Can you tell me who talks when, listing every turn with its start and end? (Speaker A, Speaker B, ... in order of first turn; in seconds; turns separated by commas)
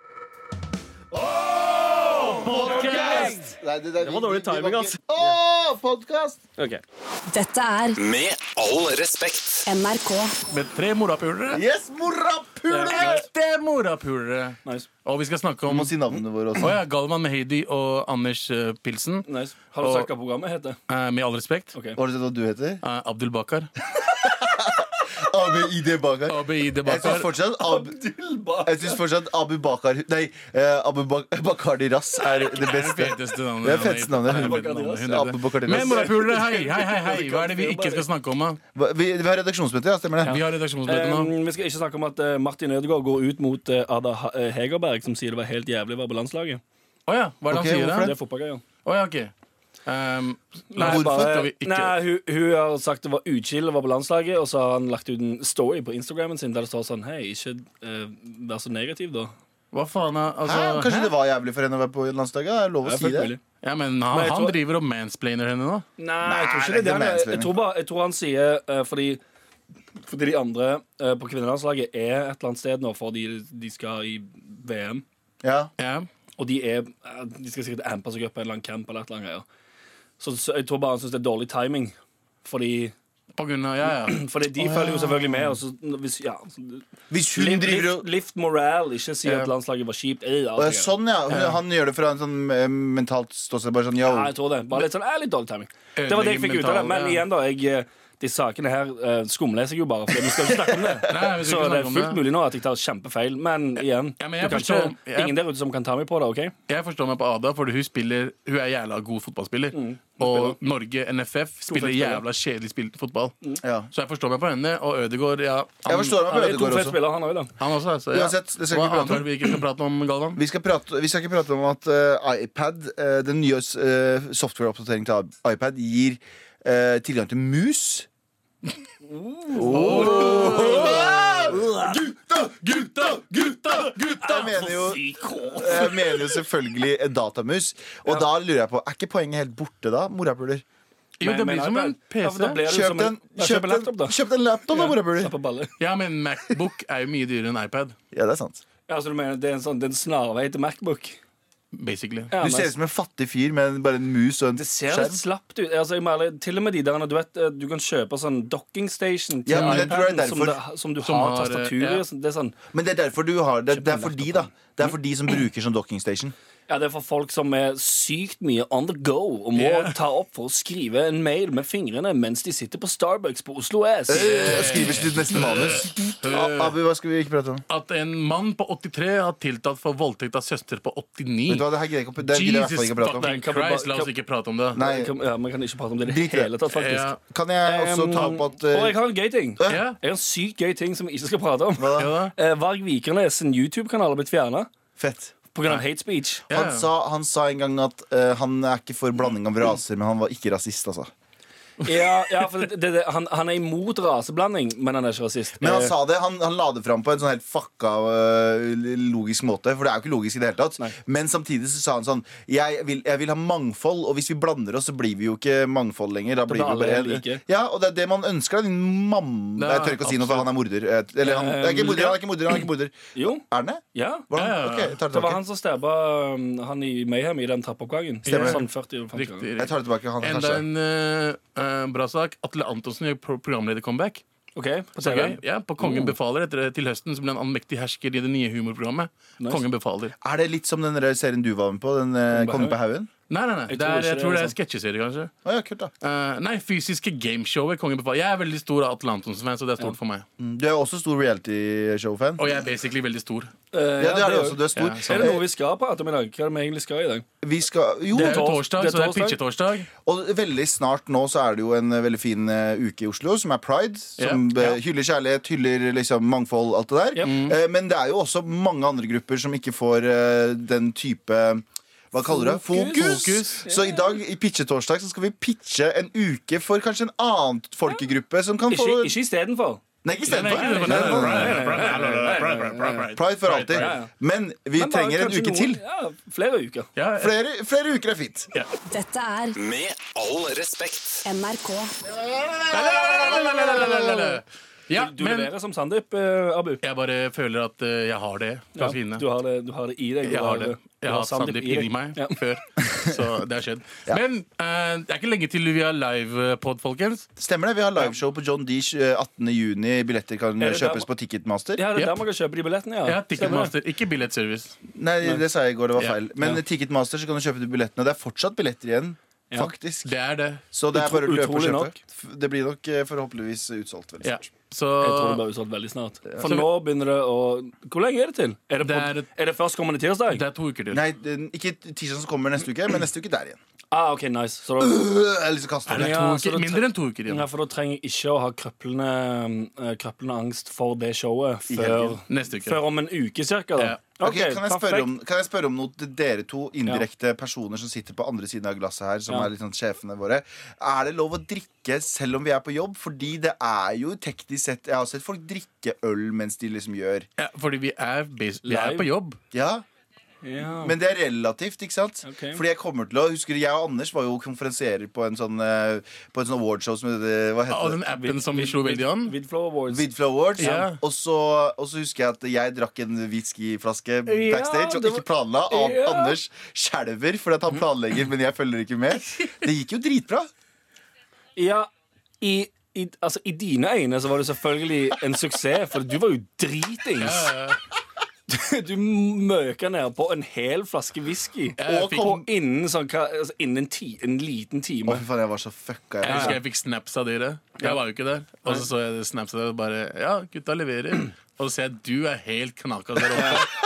Speaker A: 1.1-6.4, Speaker B: 2.0-3.4, Speaker C: 2.5-5.3, Speaker C: 6.6-6.8, Speaker D: 7.3-8.0, Speaker E: 8.0-9.7, Speaker D: 9.7-10.4, Speaker B: 10.5-11.6, Speaker A: 11.5-13.3, Speaker C: 12.7-13.2, Speaker B: 12.9-19.2, Speaker A: 15.7-16.8, Speaker C: 19.2-20.8, Speaker B: 19.8-20.1, Speaker B: 20.9-21.7, Speaker C: 21.7-22.0, Speaker A: 21.9-22.8, Speaker B: 22.8-23.7, Speaker A: 24.0-27.9, Speaker B: 26.3-27.3, Speaker C: 27.6-29.0, Speaker A: 28.6-36.1, Speaker B: 32.2-38.6, Speaker C: 34.3-38.0, Speaker A: 38.7-40.4, Speaker B: 40.2-41.3, Speaker C: 40.2-46.6, Speaker B: 47.1-48.1, Speaker A: 47.5-48.1, Speaker C: 48.0-48.6, Speaker B: 48.8-49.3, Speaker B: 49.9-51.9, Speaker C: 50.7-59.3, Speaker A: 50.8-51.4, Speaker B: 59.7-61.1, Speaker A: 60.4-63.3, Speaker C: 62.8-63.4, Speaker B: 63.6-65.8, Speaker C: 64.1-64.6, Speaker C: 66.0-69.2, Speaker A: 66.2-67.5, Speaker C: 70.0-75.0, Speaker A: 75.4-75.7, Speaker B: 75.8-76.1, Speaker C: 76.4-79.5, Speaker C: 80.2-82.9, Speaker B: 83.3-84.2, Speaker C: 84.0-90.9, Speaker A: 84.6-85.3, Speaker A: 87.1-88.1, Speaker B: 89.2-89.5, Speaker A: 90.6-94.3, Speaker B: 91.3-91.6, Speaker C: 94.0-106.5, Speaker B: 96.0-97.2, Speaker A: 100.5-101.2, Speaker B: 101.1-102.2, Speaker B: 104.2-105.4, Speaker B: 106.7-113.3, Speaker C: 109.7-110.5, Speaker C: 111.7-112.2, Speaker A: 113.6-113.9, Speaker B: 113.9-116.2, Speaker A: 115.8-117.0, Speaker C: 116.2-117.5, Speaker B: 117.6-120.4, Speaker A: 118.1-119.3, Speaker A: 120.3-128.1, Speaker C: 129.0-132.0, Speaker A: 129.5-135.0, Speaker B: 129.6-131.5, Speaker B: 132.6-134.4, Speaker C: 134.2-136.3, Speaker A: 135.5-140.6, Speaker B: 141.2-142.6, Speaker C: 141.2-144.2, Speaker A: 142.6-145.3, Speaker C: 144.7-145.7, Speaker B: 145.8-147.9, Speaker A: 148.1-148.6, Speaker C: 148.9-151.2, Speaker B: 151.7-152.3, Speaker C: 152.3-152.7, Speaker A: 152.4-155.2, Speaker C: 154.6-162.5, Speaker A: 159.4-160.6, Speaker B: 159.5-159.9, Speaker B: 161.0-162.0, Speaker A: 162.7-166.3, Speaker C: 163.7-164.5, Speaker C: 166.7-174.9, Speaker B: 169.5-169.9, Speaker A: 174.1-177.6, Speaker B: 174.3-176.8, Speaker B: 177.7-181.7, Speaker A: 181.5-183.3, Speaker B: 182.2-184.8, Speaker C: 183.2-184.1, Speaker A: 184.7-185.1, Speaker C: 184.8-187.1, Speaker A: 186.0-186.5, Speaker B: 186.7-187.2, Speaker A: 187.2-189.8, Speaker C: 187.6-194.7, Speaker B: 189.7-189.9, Speaker A: 191.8-192.1, Speaker B: 192.0-192.3, Speaker A: 195.0-195.3, Speaker C: 195.5-196.4, Speaker A: 196.5-201.1, Speaker B: 196.5-196.9, Speaker B: 201.8-202.7, Speaker C: 201.8-205.9, Speaker A: 205.6-225.4, Speaker C: 216.5-217.4, Speaker B: 219.6-220.5, Speaker C: 221.2-222.2, Speaker C: 223.1-223.4, Speaker C: 223.9-224.3, Speaker B: 224.3-225.0, Speaker C: 225.1-229.4, Speaker B: 228.2-234.2, Speaker A: 228.3-228.6, Speaker A: 229.6-230.6, Speaker C: 234.6-236.1, Speaker B: 235.0-240.1, Speaker A: 240.2-243.1, Speaker C: 242.3-242.8, Speaker B: 243.3-245.3, Speaker C: 243.7-244.5, Speaker A: 245.4-245.9, Speaker B: 246.0-250.2, Speaker A: 250.4-252.5, Speaker B: 252.4-253.5, Speaker C: 253.7-257.2, Speaker A: 254.0-255.4, Speaker B: 254.7-255.4, Speaker A: 257.4-258.5, Speaker C: 258.1-259.4, Speaker B: 258.2-259.9, Speaker A: 260.0-279.2, Speaker B: 264.2-264.8, Speaker B: 267.2-267.6, Speaker C: 272.3-273.9, Speaker B: 272.7-273.6, Speaker C: 278.7-279.8, Speaker A: 280.0-281.9, Speaker B: 280.3-283.9, Speaker C: 280.4-283.1, Speaker A: 283.1-285.8, Speaker C: 283.8-284.1, Speaker C: 284.7-286.9, Speaker B: 286.9-287.3, Speaker A: 287.1-288.5, Speaker D: 288.9-289.6, Speaker E: 289.5-291.3, Speaker D: 291.2-291.9, Speaker A: 292.3-294.4, Speaker B: 292.7-295.5, Speaker C: 294.9-296.8, Speaker B: 296.8-299.2, Speaker C: 298.7-302.4, Speaker B: 300.2-307.2, Speaker A: 307.4-311.8, Speaker C: 310.6-311.1, Speaker C: 311.8-313.7, Speaker B: 311.9-312.2, Speaker B: 313.0-314.7, Speaker A: 314.9-320.1, Speaker B: 320.0-320.6, Speaker A: 320.7-324.5, Speaker C: 320.9-321.9, Speaker B: 324.2-325.4, Speaker C: 325.0-330.4, Speaker B: 326.4-326.7, Speaker B: 328.8-329.2, Speaker B: 330.3-331.0, Speaker A: 330.9-333.6, Speaker C: 333.9-335.0, Speaker A: 334.8-336.2, Speaker B: 335.9-337.5, Speaker C: 335.9-345.1, Speaker A: 341.7-342.2, Speaker B: 342.3-342.8, Speaker A: 344.2-357.3, Speaker B: 357.4-359.4, Speaker C: 358.6-359.1, Speaker A: 359.5-359.8, Speaker C: 360.4-360.9, Speaker A: 360.7-368.0, Speaker C: 362.2-362.6, Speaker B: 367.7-369.3, Speaker C: 368.1-370.9, Speaker A: 369.9-380.5, Speaker B: 370.6-371.0, Speaker C: 374.2-376.4, Speaker C: 381.6-381.9, Speaker C: 382.4-387.5, Speaker B: 387.2-387.8, Speaker C: 388.5-395.2, Speaker B: 391.8-392.4, Speaker A: 391.8-392.4, Speaker A: 395.1-396.6, Speaker B: 396.2-403.7, Speaker C: 396.2-396.6, Speaker C: 403.3-403.7